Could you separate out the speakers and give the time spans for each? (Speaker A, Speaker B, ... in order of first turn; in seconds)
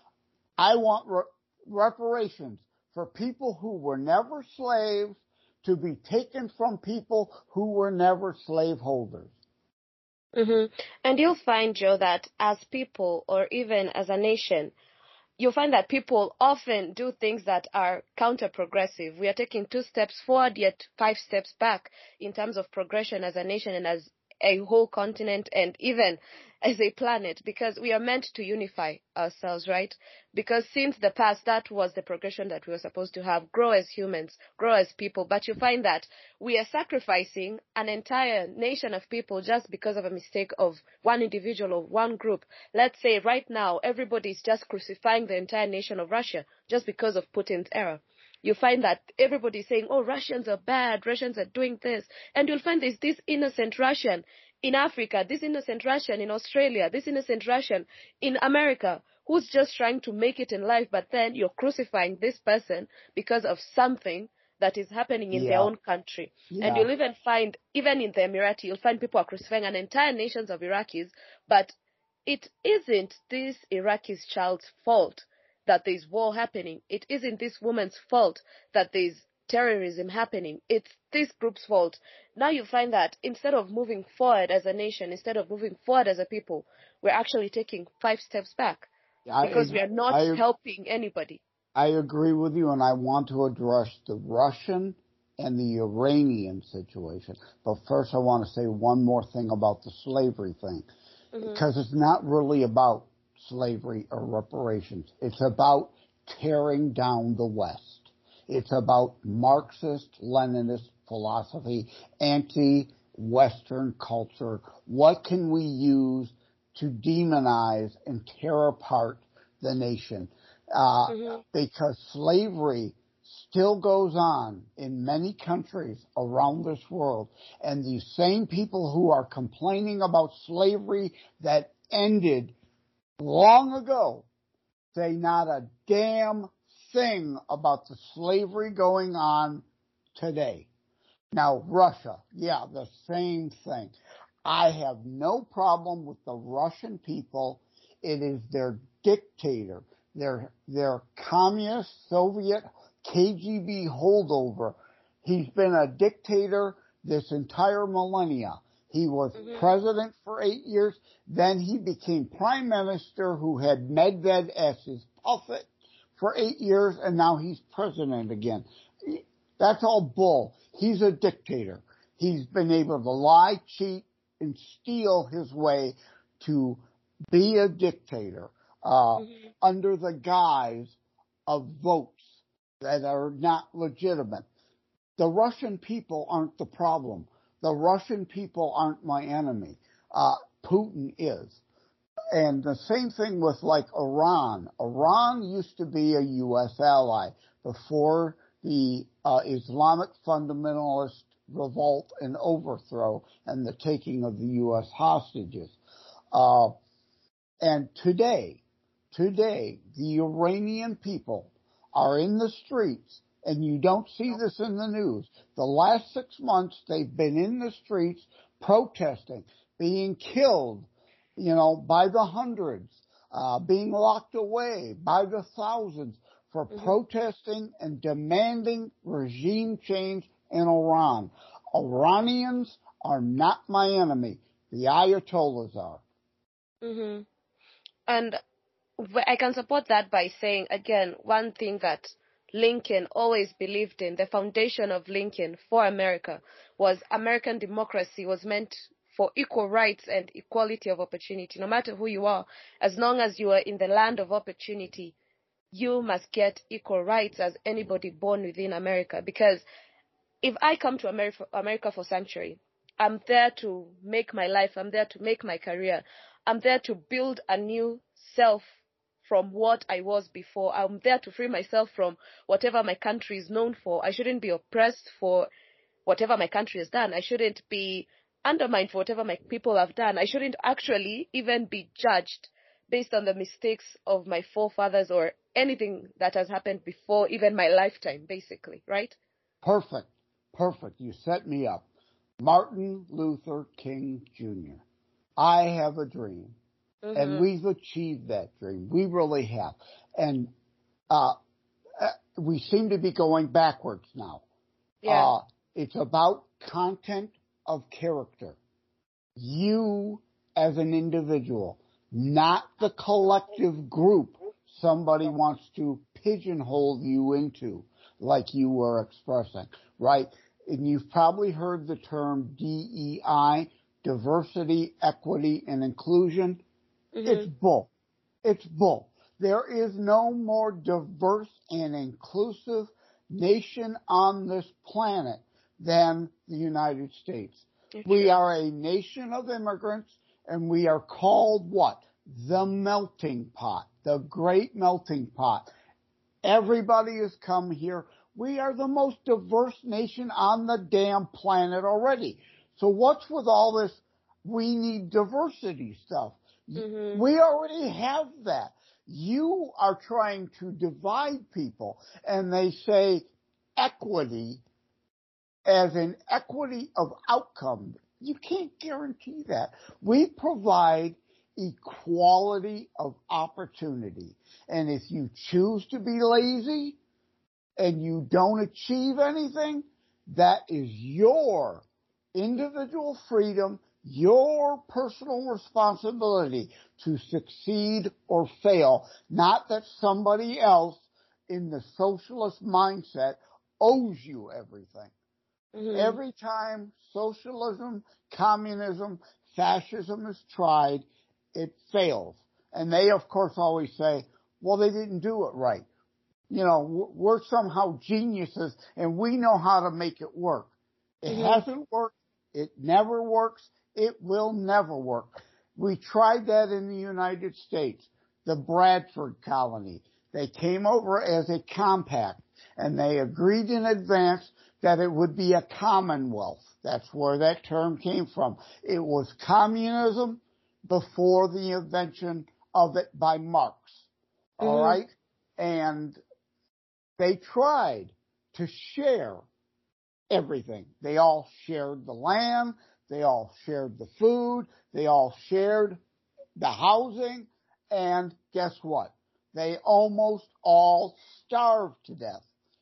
Speaker A: 0.6-9.3, 65.3-65.7, 66.5-66.9, 89.3-90.4, 91.8-100.9, 101.4-132.6, 133.2-134.3, 134.9-140.7, 141.3-143.9, 144.4-184.5, 185.2-191.6, 192.3-205.8, 206.3-206.7, 207.6-208.6, 209.1-236.0, 289.6-291.8, 292.4-294.8, 295.4-296.5, 297.1-300.5, 301.1-301.4, 302.0-304.4, 305.1-308.6, 309.4-326.6, 327.2-327.9, 328.4-345.7, 346.4-363.3, 363.8-364.6, 365.7-377.0, 377.8-381.8, 382.4-395.1, 395.9-405.9, 406.5-410.7, 411.2-434.0, 434.6-436.2, 437.2-439.4, 440.3-446.0, 446.6-452.5
Speaker B: 10.4-14.7, 15.4-71.7, 72.3-88.9, 89.4-91.4, 101.3-101.6, 121.1-121.4, 159.4-159.7, 236.8-237.3, 238.1-238.4, 239.0-255.2, 255.7-259.6, 260.4-268.6, 269.2-275.5, 276.1-289.2, 297.0-297.5, 305.0-305.3, 327.1-327.5, 338.0-338.3, 356.8-357.3, 395.8-396.2, 411.3-411.6, 434.6-435.0